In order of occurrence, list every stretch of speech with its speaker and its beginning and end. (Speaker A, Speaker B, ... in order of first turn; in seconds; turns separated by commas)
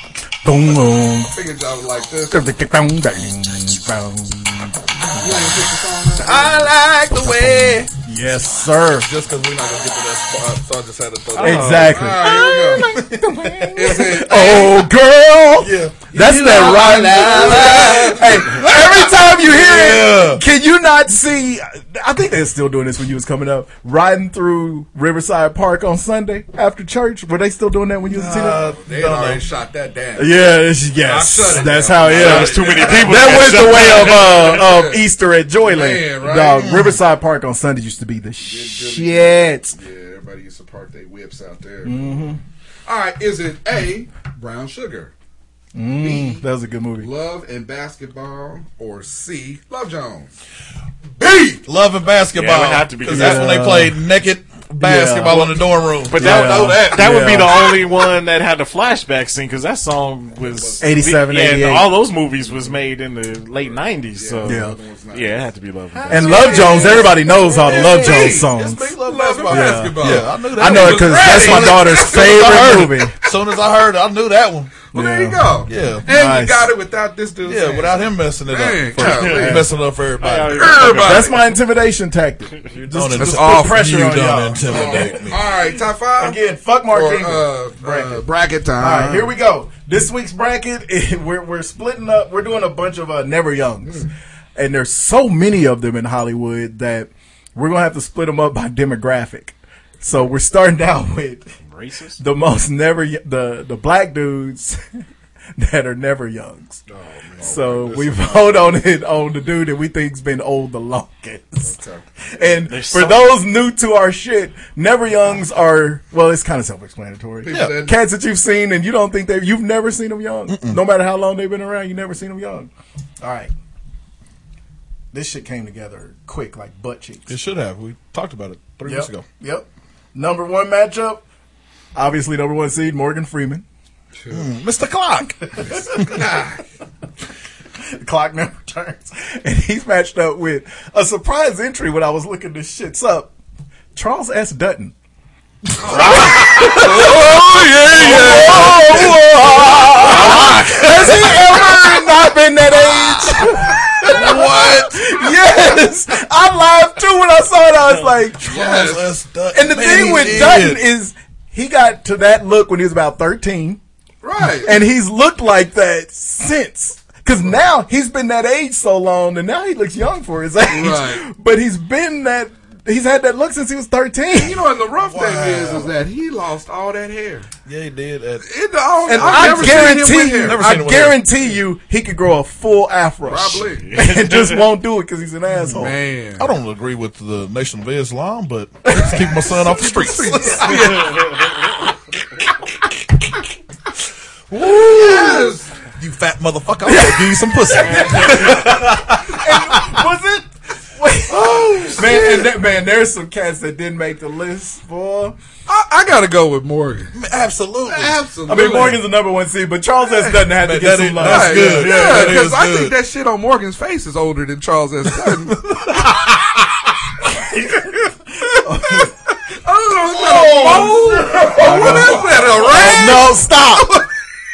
Speaker A: 0.4-1.3, Speaker B: 1.3-2.5, Speaker A: 2.3-5.6, Speaker B: 5.2-6.7, Speaker C: 6.2-7.9, Speaker A: 6.3-9.1, Speaker C: 9.1-12.2, Speaker B: 9.6-9.9, Speaker B: 11.3-12.9, Speaker A: 11.4-28.6, Speaker B: 13.7-14.8, Speaker C: 15.6-20.4, Speaker B: 16.1-18.6, Speaker C: 28.1-29.4, Speaker B: 28.3-35.0, Speaker A: 30.2-39.7, Speaker C: 31.6-33.5, Speaker D: 32.0-34.6, Speaker B: 35.6-36.7, Speaker C: 36.5-37.0, Speaker B: 38.4-42.2, Speaker A: 41.8-42.4, Speaker B: 42.9-45.1, Speaker A: 45.7-47.1, Speaker B: 46.0-46.4, Speaker B: 47.0-50.3, Speaker B: 51.2-51.6, Speaker C: 51.6-57.1, Speaker D: 52.3-53.5, Speaker A: 53.1-54.0, Speaker A: 54.8-57.6, Speaker D: 56.1-66.7, Speaker B: 60.4-60.8, Speaker A: 60.8-61.9, Speaker B: 63.6-65.5, Speaker A: 64.4-64.8, Speaker B: 66.1-72.6, Speaker A: 66.1-68.9, Speaker C: 66.1-66.8, Speaker C: 67.8-74.8, Speaker A: 69.5-73.2, Speaker B: 74.9-79.7, Speaker A: 74.9-76.7, Speaker C: 75.7-76.1, Speaker C: 77.4-80.9, Speaker A: 79.0-79.7, Speaker D: 79.0-79.5, Speaker D: 80.2-81.4, Speaker B: 80.4-81.4, Speaker A: 80.9-85.2, Speaker C: 82.9-85.4, Speaker B: 83.2-89.3, Speaker A: 86.2-88.2, Speaker A: 88.8-101.5, Speaker D: 101.6-102.2, Speaker A: 102.2-104.8, Speaker A: 105.6-106.8, Speaker B: 106.9-108.7, Speaker A: 107.4-111.8, Speaker B: 111.6-112.0, Speaker A: 112.3-123.5, Speaker D: 112.7-113.4, Speaker B: 117.4-118.0, Speaker C: 117.5-117.8, Speaker C: 120.5-120.8, Speaker A: 125.1-127.3, Speaker C: 127.3-129.2, Speaker A: 128.8-131.2, Speaker A: 131.9-133.6, Speaker C: 134.3-135.3, Speaker A: 135.6-135.8, Speaker B: 135.8-136.6, Speaker A: 137.9-143.3, Speaker A: 143.9-144.9, Speaker B: 145.8-149.1, Speaker A: 145.9-158.4, Speaker D: 145.9-146.2, Speaker C: 147.9-148.9, Speaker B: 150.0-151.1, Speaker C: 150.2-150.8, Speaker C: 154.1-155.0, Speaker C: 158.4-160.8, Speaker B: 158.4-159.2, Speaker A: 159.5-163.8, Speaker B: 164.2-164.7, Speaker A: 164.6-174.6, Speaker B: 170.7-171.2, Speaker B: 174.4-177.5, Speaker C: 175.1-175.9, Speaker C: 177.7-178.4, Speaker B: 178.4-180.8, Speaker A: 179.1-185.9, Speaker C: 179.1-181.2, Speaker B: 183.3-183.9, Speaker D: 183.9-184.6, Speaker B: 185.7-186.5, Speaker C: 186.4-190.9, Speaker A: 188.9-189.4, Speaker B: 189.6-191.5, Speaker A: 190.5-190.9, Speaker C: 194.6-195.3, Speaker B: 194.8-195.7, Speaker C: 196.0-199.4, Speaker A: 196.8-205.4, Speaker C: 201.3-202.3, Speaker B: 201.5-202.4, Speaker B: 205.7-207.2, Speaker C: 207.1-208.2, Speaker B: 207.8-209.0, Speaker A: 208.5-212.4, Speaker B: 210.1-210.5, Speaker C: 210.6-212.9, Speaker B: 211.2-215.7, Speaker C: 215.6-215.9, Speaker A: 218.5-219.1, Speaker B: 219.6-223.4, Speaker A: 220.2-224.0, Speaker C: 220.3-220.8, Speaker C: 221.4-223.2